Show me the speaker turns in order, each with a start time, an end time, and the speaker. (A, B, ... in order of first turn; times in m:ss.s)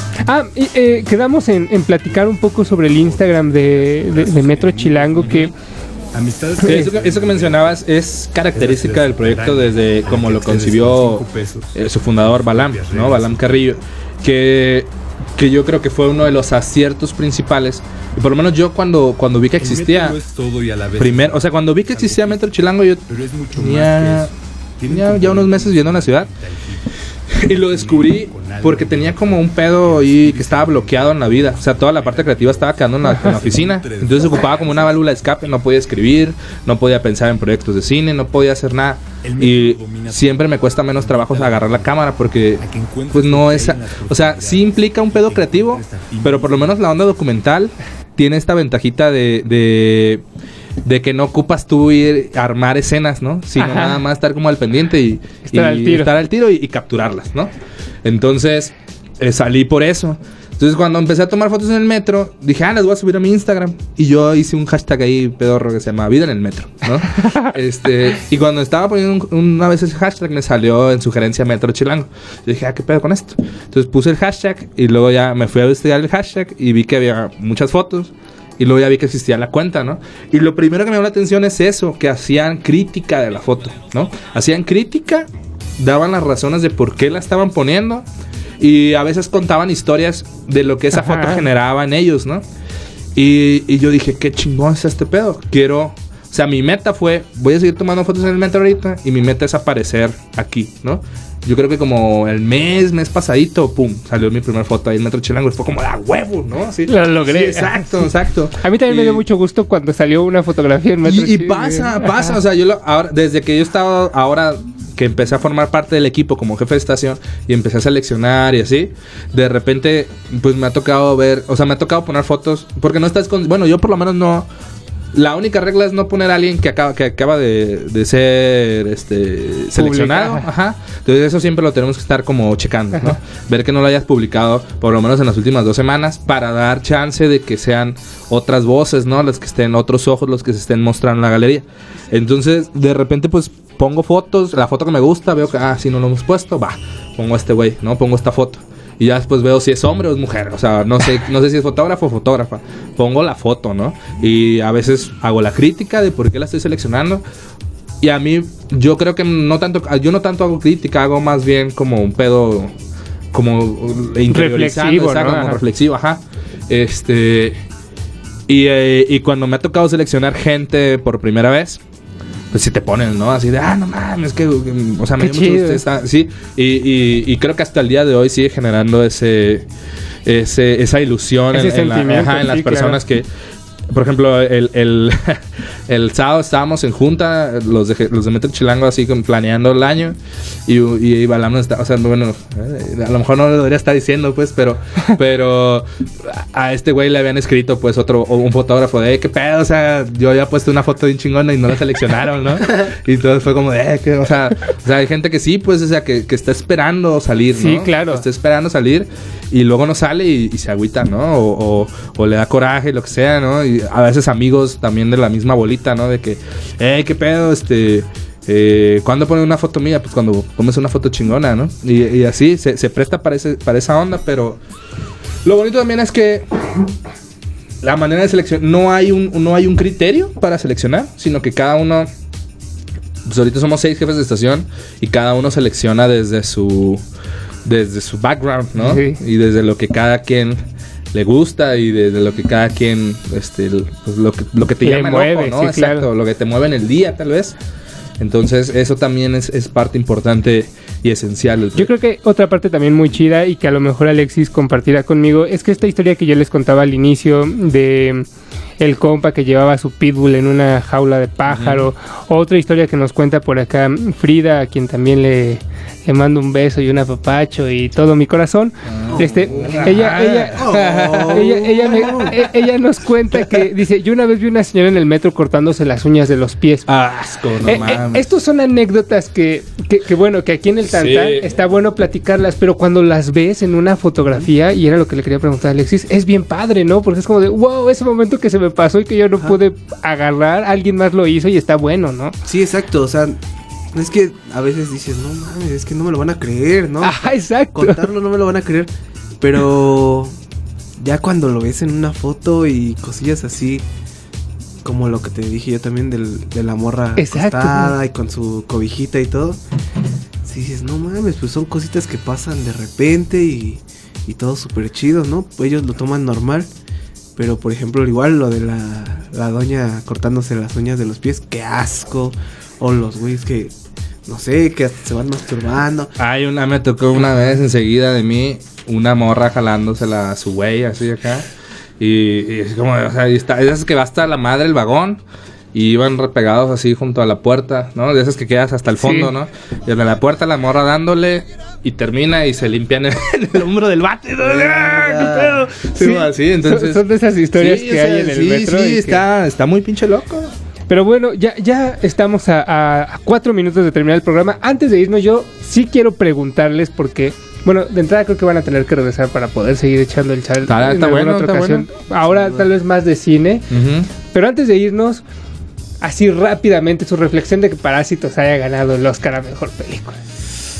0:00.2-0:05.5 A
0:03.1-0:05.5 B
0:06.1-0:07.8 B
0:06.6-0:20.2 C
0:08.6-0:13.7 B
0:19.6-0:22.4 B
0:21.0-0:24.3 C
0:23.1-0:35.0 B
0:24.9-0:26.3 C
0:27.3-0:50.2 C
0:33.0-0:33.4 A
0:39.2-0:42.0 B
0:42.6-0:46.8 B
0:50.8-0:57.5 C
0:53.6-0:54.0 A
0:55.5-0:56.1 A
0:58.0-1:28.0 C
1:28.6-1:32.4 C
1:30.9-1:31.5 A
1:33.2-1:49.2 C
1:46.9-1:52.4 A
1:51.0-2:04.5 C
2:05.1-2:37.2 C
2:09.8-2:10.5 A
2:38.0-2:42.7 C
2:43.3-2:47.6 C
2:44.3-2:45.6 A
2:48.5-2:51.8 C
2:52.5-2:59.7 C
2:55.2-2:55.8 A
3:00.3-3:03.3 C
3:01.5-3:03.0 A
3:03.9-3:44.6 C
3:27.6-3:28.2 A
3:45.4-3:46.5 C
3:47.8-3:52.1 C
3:53.3-3:57.0 C
3:57.6-4:07.6 C
3:58.8-3:59.2 A
4:04.8-4:06.1 A
4:08.2-4:11.9 C
4:11.8-4:18.3 A
4:18.8-4:30.6 A
4:21.5-4:21.9 C
4:28.9-4:31.6 C
4:29.1-4:32.4 D
4:31.3-4:36.9 A
4:36.9-4:38.3 C
4:37.6-4:52.4 A
4:40.9-4:41.5 C
4:52.4-4:53.4 D
4:53.9-5:00.4 D
4:57.0-4:58.1 A
5:01.0-5:03.8 D
5:04.8-5:09.6 D
5:07.2-5:08.0 A
5:10.4-5:16.7 D
5:17.4-5:23.7 D
5:24.3-5:26.1 D
5:26.2-5:31.5 C
5:32.0-5:35.2 C
5:35.7-5:50.5 C
5:39.0-5:39.3 A
5:44.4-5:45.7 D
5:46.0-5:49.2 A
5:50.9-6:03.7 A
6:00.7-6:01.9 C
6:02.3-6:02.6 D
6:03.7-6:04.1 C
6:04.3-6:05.2 A
6:06.0-6:10.2 A